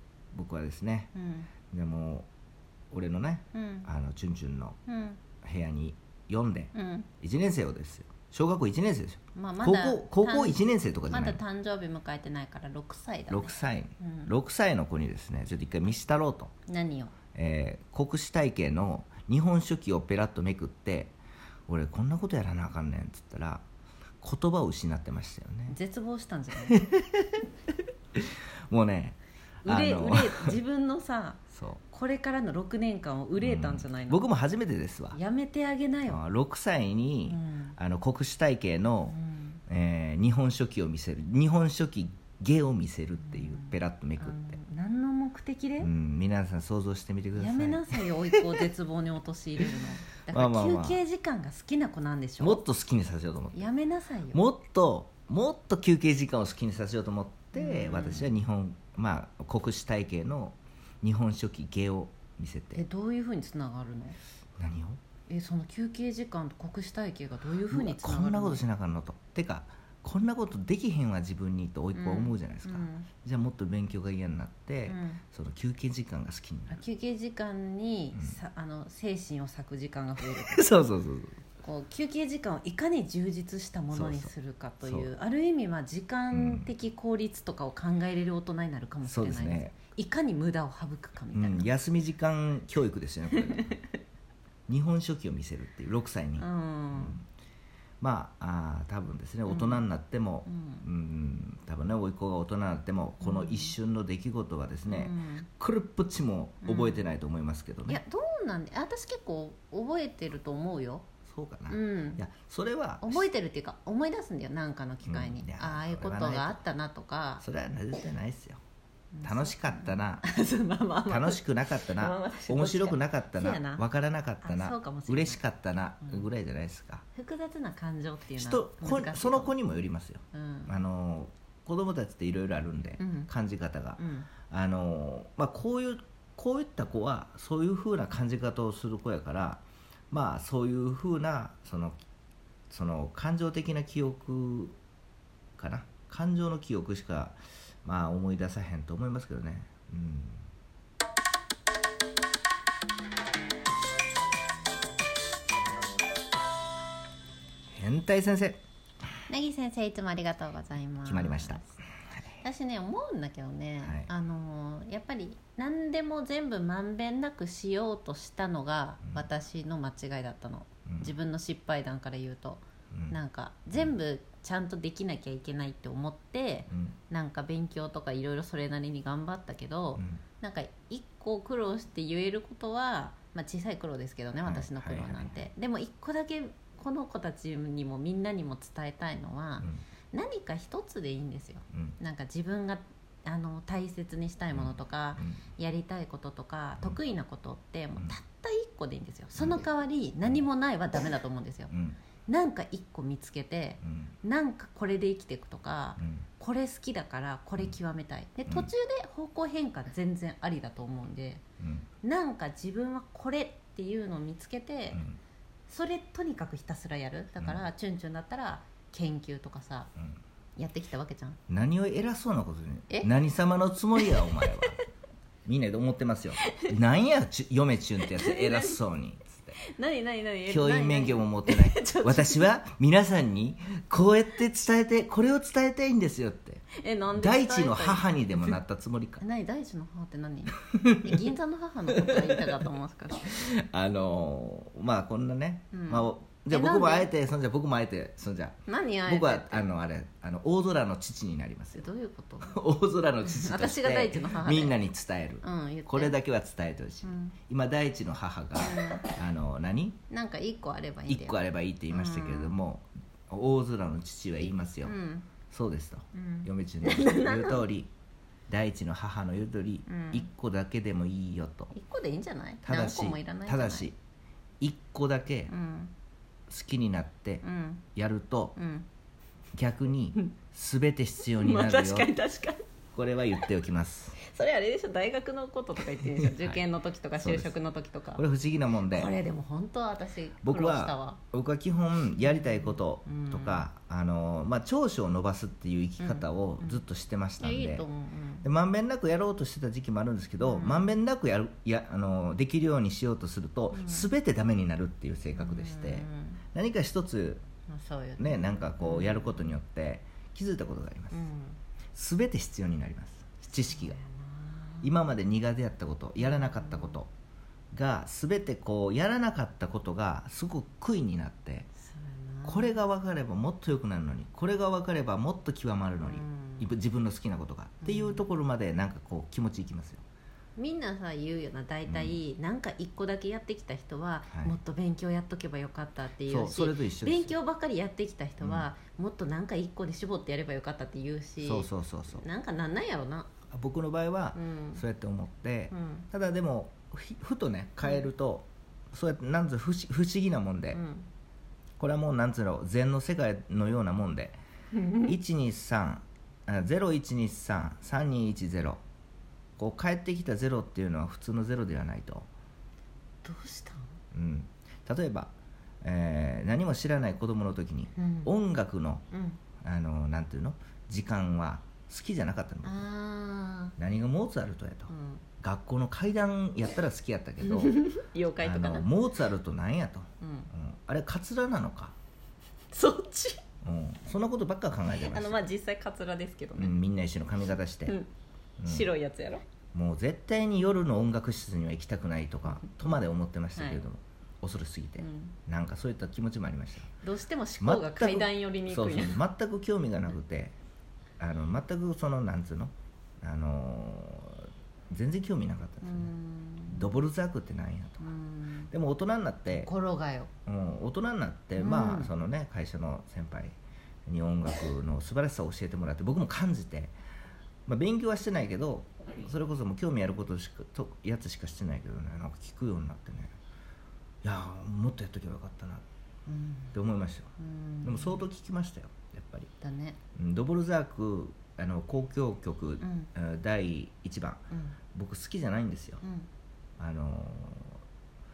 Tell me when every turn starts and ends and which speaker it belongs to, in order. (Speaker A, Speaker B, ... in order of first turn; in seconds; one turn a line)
Speaker A: 0.3-1.1
Speaker B: 1.1-1.5
Speaker A: 1.7-2.3
Speaker A: 2.9-4.8
Speaker B: 3.5-3.9
Speaker B: 4.9-5.2
Speaker A: 5.4-11.4
Speaker B: 6.7-7.1
Speaker B: 9.3-14.3
Speaker A: 13.3-16.5
Speaker B: 16.7-17.1
Speaker A: 17.4-21.2
Speaker A: 21.7-23.6
Speaker A: 24.2-25.8
Speaker B: 25.7-26.8
Speaker A: 26.7-27.4
Speaker A: 28.2-30.6
Speaker B: 29.6-34.2
Speaker A: 31.5-31.8
Speaker A: 33.4-35.2
Speaker B: 35.1-36.2
Speaker A: 36.1-39.2
Speaker B: 37.3-37.8
Speaker B: 39.1-39.6
Speaker A: 39.7-44.6
Speaker B: 43.2-45.9
Speaker A: 45.8-48.7
Speaker B: 47.4-52.6
Speaker A: 50.3-51.0
Speaker A: 52.4-53.7
Speaker B: 53.5-54.4
Speaker A: 54.3-62.8
Speaker B: 57.5-58.4
Speaker B: 62.7-64.2
Speaker A: 64.6-65.0
Speaker B: 65.3-68.6
Speaker A: 67.7-76.8
Speaker B: 72.0-73.1
Speaker B: 74.9-75.2
Speaker B: 76.7-80.7
Speaker A: 78.1-78.4
Speaker A: 80.3-81.4
Speaker B: 81.6-91.7
Speaker A: 83.9-85.1
Speaker A: 86.3-86.7
Speaker A: 89.0-89.7
Speaker A: 91.3-93.8
Speaker B: 93.3-93.8
Speaker A: 94.7-97.2
Speaker B: 96.4-97.2
Speaker A: 98.0-108.0
Speaker B: 99.5-99.8
Speaker B: 100.5-100.9
Speaker B: 103.2-103.8
Speaker B: 104.9-105.5
Speaker B: 106.6-107.1
Speaker B: 107.9-111.0
Speaker A: 111.3-113.3
Speaker B: 111.7-112.2
Speaker B: 113.0-117.4
Speaker A: 115.0-116.6
Speaker A: 117.4-118.6
Speaker B: 119.1-123.8
Speaker A: 119.2-120.3
Speaker A: 121.1-127.0
Speaker B: 124.4-125.4
Speaker B: 127.2-129.6
Speaker A: 128.4-142.0
Speaker B: 130.3-130.7
Speaker B: 133.0-133.3
Speaker B: 134.0-134.3
Speaker A: 142.7-144.8
Speaker A: 145.6-150.4
Speaker A: 157.7-158.6
Speaker B: 159.3-161.7
Speaker A: 161.1-161.7
Speaker B: 162.4-201.7
Speaker A: 163.8-164.1
Speaker A: 170.9-171.1
Speaker A: 172.9-173.2
Speaker A: 176.7-177.0
Speaker A: 180.0-180.2
Speaker A: 184.5-185.4
Speaker A: 194.5-195.4
Speaker A: 199.4-199.7
Speaker A: 201.7-202.0
Speaker B: 202.3-211.4
Speaker A: 203.8-204.1
Speaker A: 206.0-206.2
Speaker A: 211.6-211.9
Speaker B: 212.0-215.0
Speaker A: 214.9-215.2
Speaker B: 215.7-219.9
Speaker B: 220.6-221.4
Speaker A: 221.5-224.8
Speaker B: 223.9-224.7
Speaker A: 225.4-229.6
Speaker B: 226.4-226.7
Speaker B: 228.0-228.8
Speaker B: 229.6-232.5
Speaker A: 230.5-239.2
Speaker B: 236.8-238.6
Speaker B: 239.2-243.3
Speaker A: 240.7-241.1
Speaker A: 242.0-242.4
Speaker A: 243.2-251.9
Speaker B: 245.7-247.1
Speaker B: 248.7-249.7
Speaker B: 251.8-252.6
Speaker A: 252.4-260.0
Speaker B: 253.2-254.8
Speaker B: 255.4-256.1
Speaker B: 257.0-257.4
Speaker B: 258.6-259.1
Speaker B: 260.1-262.6
Speaker A: 261.1-264.9
Speaker B: 264.8-265.3
Speaker A: 265.5-267.9
Speaker B: 266.1-267.6
Speaker A: 268.5-271.7
Speaker B: 269.9-270.3
Speaker B: 271.7-273.9
Speaker A: 272.6-274.0
Speaker A: 274.6-275.5
Speaker B: 275.5-275.9
Speaker A: 276.5-277.4
Speaker B: 277.4-277.8
Speaker A: 278.0-278.6
Speaker B: 278.6-278.9
Speaker A: 279.5-282.1
Speaker B: 281.3-282.6
Speaker A: 282.9-284.2
Speaker B: 284.2-288.2
Speaker A: 286.1-286.6
Speaker A: 287.2-287.5
Speaker A: 288.2-289.1
Speaker B: 288.9-291.2
Speaker A: 290.4-297.9
Speaker B: 292.2-293.6
Speaker B: 296.0-296.8
Speaker B: 297.4-298.5
Speaker A: 298.4-307.4
Speaker B: 300.4-301.0
Speaker B: 303.7-304.1
Speaker B: 305.4-306.4
Speaker B: 307.7-309.6
Speaker A: 308.2-311.2
Speaker B: 311.1-311.6
Speaker A: 311.9-314.0
Speaker B: 313.6-314.9
Speaker A: 314.8-317.1
Speaker B: 316.2-317.0
Speaker A: 317.7-321.7
Speaker B: 321.9-322.8
Speaker A: 322.4-330.0
Speaker B: 326.0-326.7
Speaker B: 327.8-328.2
Speaker B: 330.6-343.3
Speaker A: 331.9-332.2
Speaker A: 334.3-334.6
Speaker A: 336.3-337.4
Speaker A: 338.4-338.7
Speaker A: 341.4-342.2
Speaker A: 343.5-350.8
Speaker B: 344.4-344.8
Speaker B: 345.7-346.1
Speaker B: 347.8-348.1
Speaker B: 350.7-351.1
Speaker A: 351.8-354.4
Speaker B: 354.7-355.1
Speaker A: 355.0-358.8
Speaker A: 359.6-362.3
Speaker B: 363.2-363.9
Speaker A: 364.1-369.1
Speaker B: 368.0-368.3
Speaker B: 369.1-369.4
Speaker A: 369.6-372.9
Speaker B: 372.6-373.8
Speaker A: 373.8-377.8
Speaker B: 374.9-375.2
Speaker B: 377.4-378.9
Speaker A: 378.4-382.0
Speaker B: 380.2-380.5
Speaker B: 382.7-383.4
Speaker A: 383.6-385.4
Speaker B: 384.9-386.8
Speaker A: 386.6-388.0
Speaker A: 388.6-388.9
Speaker B: 388.6-389.4
Speaker A: 389.7-396.9
Speaker B: 393.6-393.8
Speaker B: 395.0-395.4
Speaker B: 397.0-399.2
Speaker A: 397.6-400.6
Speaker A: 401.2-406.1
Speaker B: 405.8-406.9
Speaker A: 406.7-408.1
Speaker B: 408.0-408.7
Speaker A: 408.7-409.7
Speaker B: 409.5-410.3
Speaker A: 410.5-413.6
Speaker B: 411.6-412.1
Speaker A: 414.1-416.9
Speaker A: 417.7-423.3
Speaker A: 424.2-425.8
Speaker B: 426.3-426.8
Speaker A: 426.7-427.3
Speaker B: 427.4-428.2
Speaker A: 427.8-429.5
Speaker B: 429.6-430.0
Speaker A: 430.2-434.4
Speaker B: 432.8-433.1
Speaker B: 434.5-434.8
Speaker A: 434.9-436.0
Speaker B: 436.0-436.3
Speaker A: 436.8-437.8